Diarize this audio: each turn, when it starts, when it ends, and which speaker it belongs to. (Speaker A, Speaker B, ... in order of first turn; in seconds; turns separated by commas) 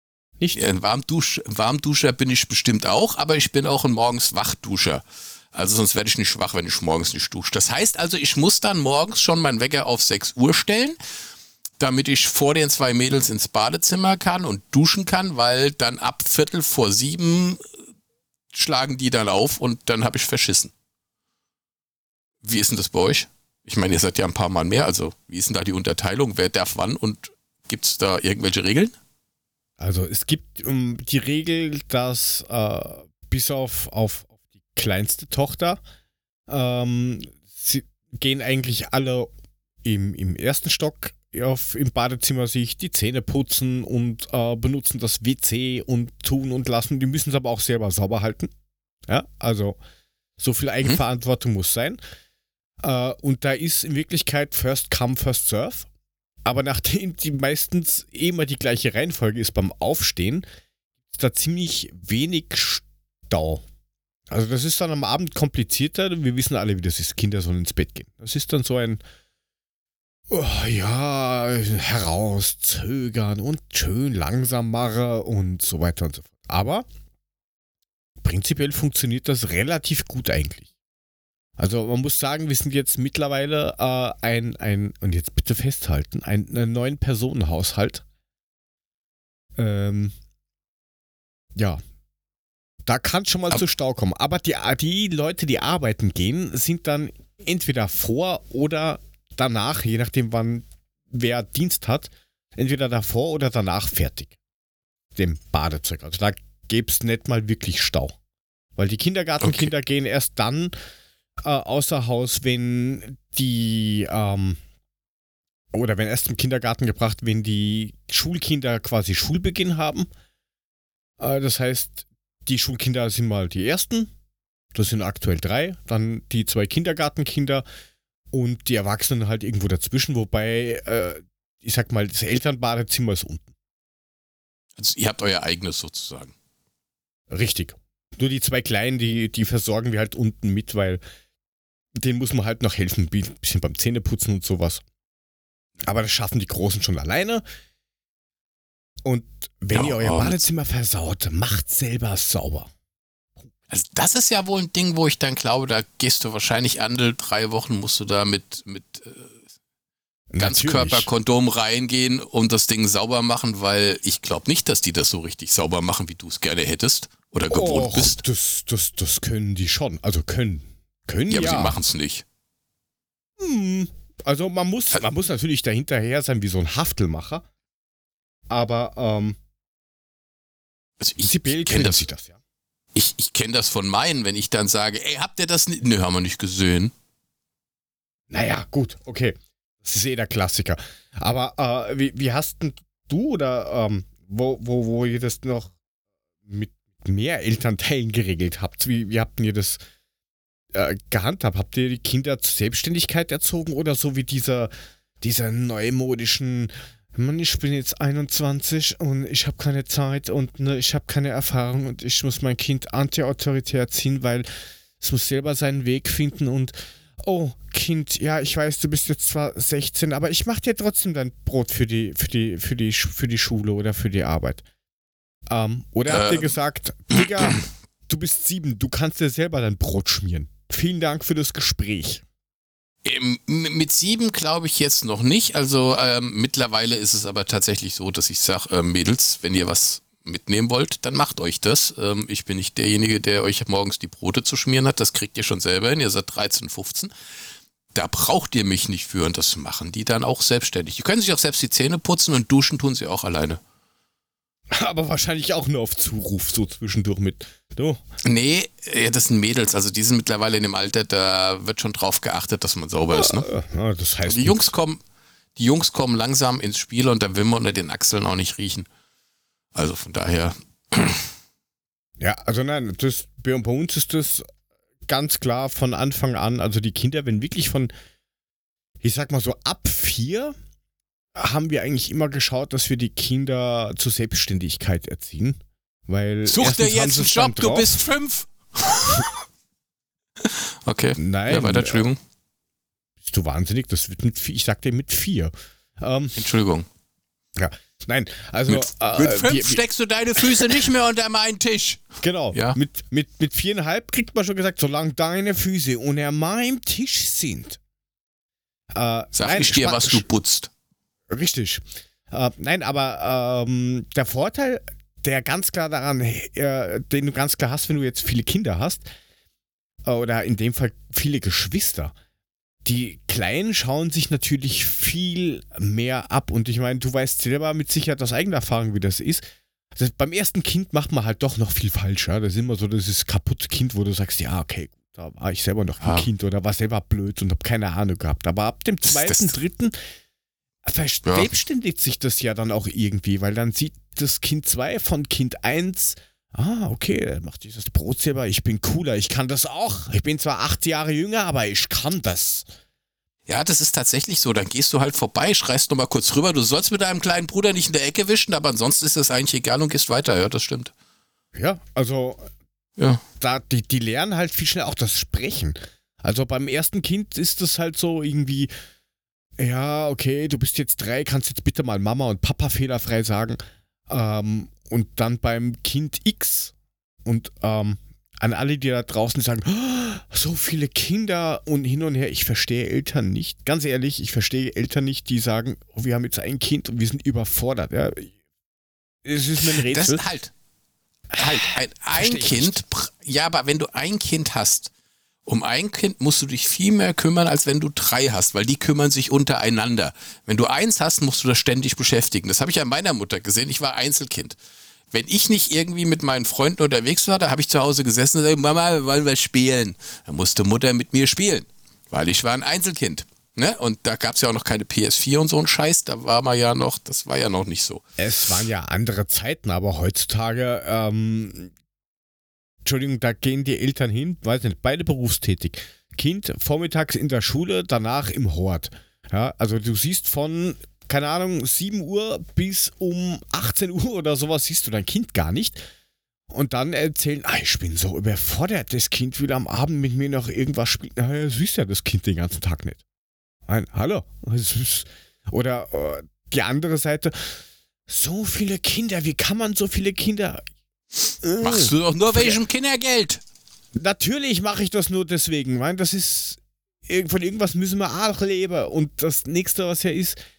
Speaker A: 0.5-5.0, Speaker A: 5.5-11.0, Speaker A: 11.8-17.6, Speaker A: 18.5-20.7, Speaker A: 22.4-28.9, Speaker B: 29.8-35.8, Speaker B: 36.5-39.3, Speaker B: 39.8-48.5, Speaker B: 49.1-49.8, Speaker B: 50.4-52.0, Speaker B: 52.8-55.9, Speaker B: 56.4-60.4, Speaker B: 61.1-63.6, Speaker B: 64.3-69.0, Speaker B: 70.3-76.8, Speaker B: 78.2-80.7, Speaker B: 81.6-88.0, Speaker B: 89.6-90.2, Speaker B: 92.8-104.3, Speaker B: 105.2-108.2, Speaker B: 108.8-110.7, Speaker A: 109.4-109.7, Speaker B: 111.4-114.6, Speaker B: 115.7-120.1, Speaker B: 121.2-124.1, Speaker B: 124.7-127.6, Speaker B: 128.3-133.5, Speaker A: 134.8-136.3, Speaker B: 137.3-141.0, Speaker B: 142.0-144.8, Speaker B: 145.8-147.4, Speaker B: 149.0-152.7, Speaker A: 149.7-150.4, Speaker A: 153.7-159.3, Speaker B: 160.3-161.1, Speaker A: 160.4-168.2, Speaker B: 167.5-171.8, Speaker A: 171.3-172.2, Speaker B: 173.4-177.4, Speaker B: 178.5-179.4, Speaker A: 181.0-182.0, Speaker B: 181.2-182.4, Speaker A: 182.9-186.9, Speaker B: 188.3-195.8, Speaker B: 196.4-199.8, Speaker B: 200.7-214.5, Speaker B: 215.0-224.6, Speaker B: 225.5-232.2, Speaker A: 226.1-226.5, Speaker A: 227.1-227.5, Speaker A: 233.0-247.1, Speaker A: 247.9-253.6, Speaker B: 254.7-258.0, Speaker A: 258.2-263.5, Speaker B: 263.1-264.7, Speaker A: 264.3-265.0, Speaker A: 265.6-268.9, Speaker A: 269.8-271.2, Speaker B: 272.2-274.4, Speaker B: 275.1-277.9, Speaker B: 279.0-280.5, Speaker B: 281.4-288.0, Speaker A: 286.5-289.3, Speaker A: 290.4-292.2, Speaker B: 291.2-292.1, Speaker B: 293.2-296.4, Speaker A: 296.4-296.9, Speaker B: 297.6-299.8, Speaker A: 298.7-302.8, Speaker B: 300.4-300.8, Speaker B: 302.2-307.8, Speaker B: 308.9-310.3, Speaker A: 309.3-310.7, Speaker B: 311.3-319.1, Speaker B: 320.1-322.1, Speaker B: 322.9-339.9, Speaker A: 336.0-336.3, Speaker A: 339.0-339.6, Speaker B: 340.9-352.7, Speaker A: 341.2-341.5, Speaker A: 353.5-360.9, Speaker B: 361.6-362.4, Speaker B: 363.4-368.7, Speaker B: 369.6-373.6, Speaker B: 374.1-376.7, Speaker B: 377.2-388.3, Speaker B: 389.2-390.2, Speaker A: 389.6-390.5, Speaker B: 391.3-392.8, Speaker A: 391.4-394.9, Speaker A: 395.5-404.6, Speaker A: 405.1-418.0, Speaker B: 418.2-421.7, Speaker B: 422.9-435.8, Speaker B: 436.5-443.0, Speaker B: 443.7-450.6, Speaker B: 451.4-452.6, Speaker A: 451.6-453.4, Speaker B: 454.0-460.4